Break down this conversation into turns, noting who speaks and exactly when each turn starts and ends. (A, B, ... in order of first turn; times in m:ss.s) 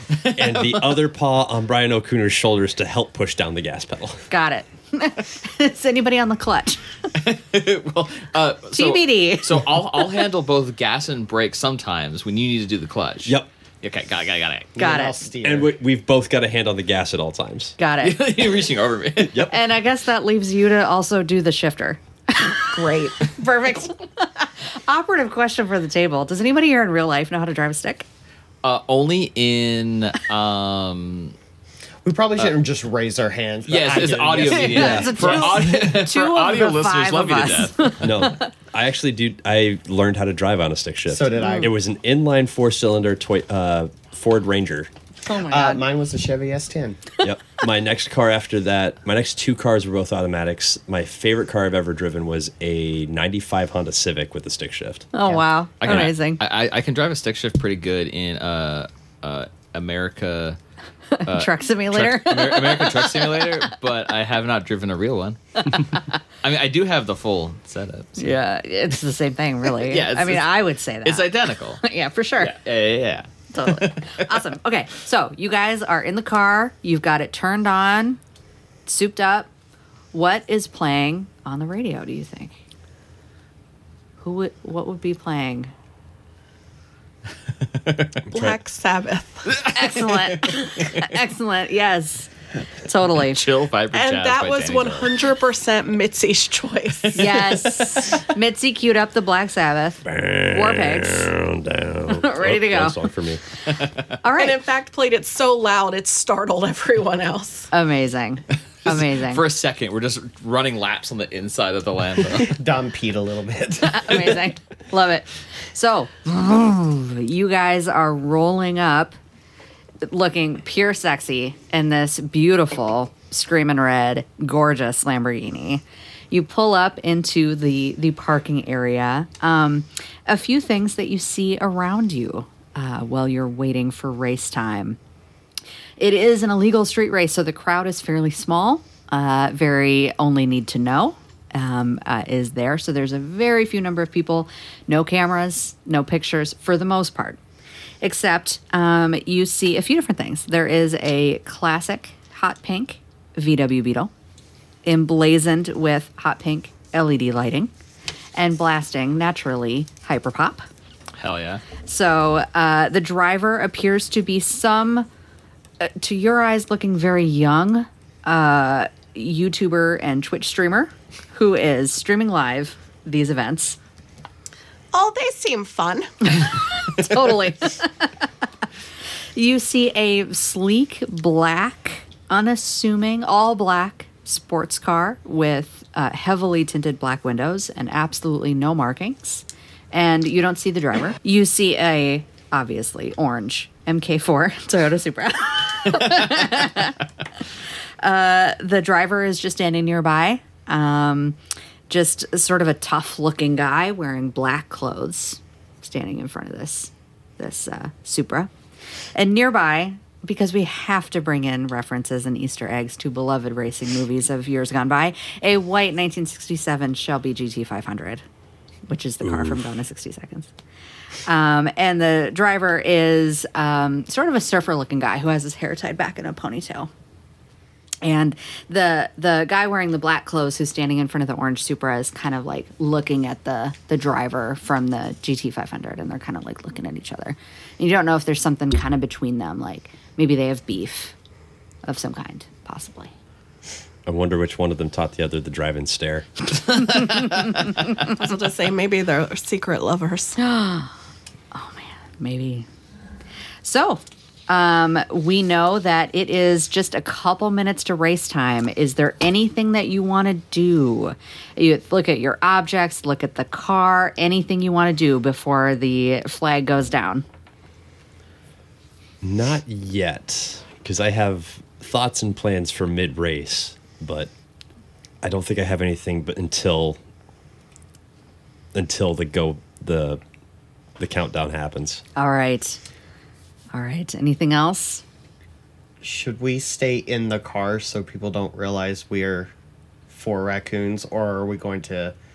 0:00.1-0:01.0 A
0:00.3-0:04.3 B
0:04.3-0:06.8 C
0:07.1-0:14.7 A
0:08.7-0:09.8 C
0:14.7-0:15.7 D
0:14.8-0:15.1 C
0:15.4-0:17.7 B
0:17.8-0:18.2 C
0:18.0-0:19.5 A
0:19.4-0:28.0 C
0:22.7-0:23.3 E
0:28.6-0:31.3 A
0:32.0-0:35.4 D
0:33.7-0:38.0 A
0:34.5-0:38.5 C
0:34.8-0:35.4 B
0:38.0-0:44.9 B
0:41.1-0:41.7 D
0:41.4-0:41.7 C
0:45.2-0:45.8 C
0:45.5-0:47.0 D
0:47.2-0:55.1 B
0:55.1-0:56.4 C
0:55.8-1:00.6 A
1:01.1-1:03.6 C
1:01.3-1:08.3 A
1:08.2-1:12.6 C
1:09.7-1:11.8 A
1:12.4-1:14.4 A
1:13.5-1:18.2 C
1:18.9-1:19.5 C
1:20.1-1:22.6 C
1:24.2-1:25.7 C
1:27.8-1:28.2 A
1:28.3-1:29.5 E
1:29.5-1:31.0 A
1:29.7-1:32.3 C
1:32.8-1:33.5 C
1:33.3-1:35.2 A
1:33.9-1:37.4 E
1:37.1-1:41.3 C
1:40.0-1:43.4 B
1:42.1-1:43.0 C
1:44.2-1:44.6 C
1:44.3-1:47.7 E
1:47.7-1:49.4 C
1:48.8-1:52.5 A
1:52.5-1:54.4 D
1:53.8-1:59.1 C
2:00.0-2:15.0 C
2:16.0-2:27.4 C
2:28.0-2:34.1 C
2:34.8-2:37.7 C
2:38.4-2:40.6 C
2:41.2-2:41.6 A
2:41.8-2:45.1 C
2:45.8-2:53.8 C
2:54.9-2:56.1 E
2:56.3-2:58.1 C
2:59.3-3:17.0 C
3:18.0-3:21.4 C
3:21.9-3:28.5 C
3:29.2-3:38.2 C
3:38.9-3:40.5 C
3:39.2-3:39.6 B
3:41.2-3:46.9 C
3:48.0-4:01.1 C
4:01.8-4:03.1 C
4:04.0-4:06.3 B
4:06.9-4:07.9 C
4:08.0-4:10.4 E
4:10.4-4:10.9 C
4:11.5-4:12.7 C
4:13.6-4:27.2 C
4:29.2-4:34.3 B
4:35.2-4:37.0 B
4:38.7-4:40.2 B
4:41.0-4:42.0 B
4:42.2-4:42.8 C
4:43.7-4:45.0 C
4:46.0-4:49.5 D
4:50.1-4:52.1 D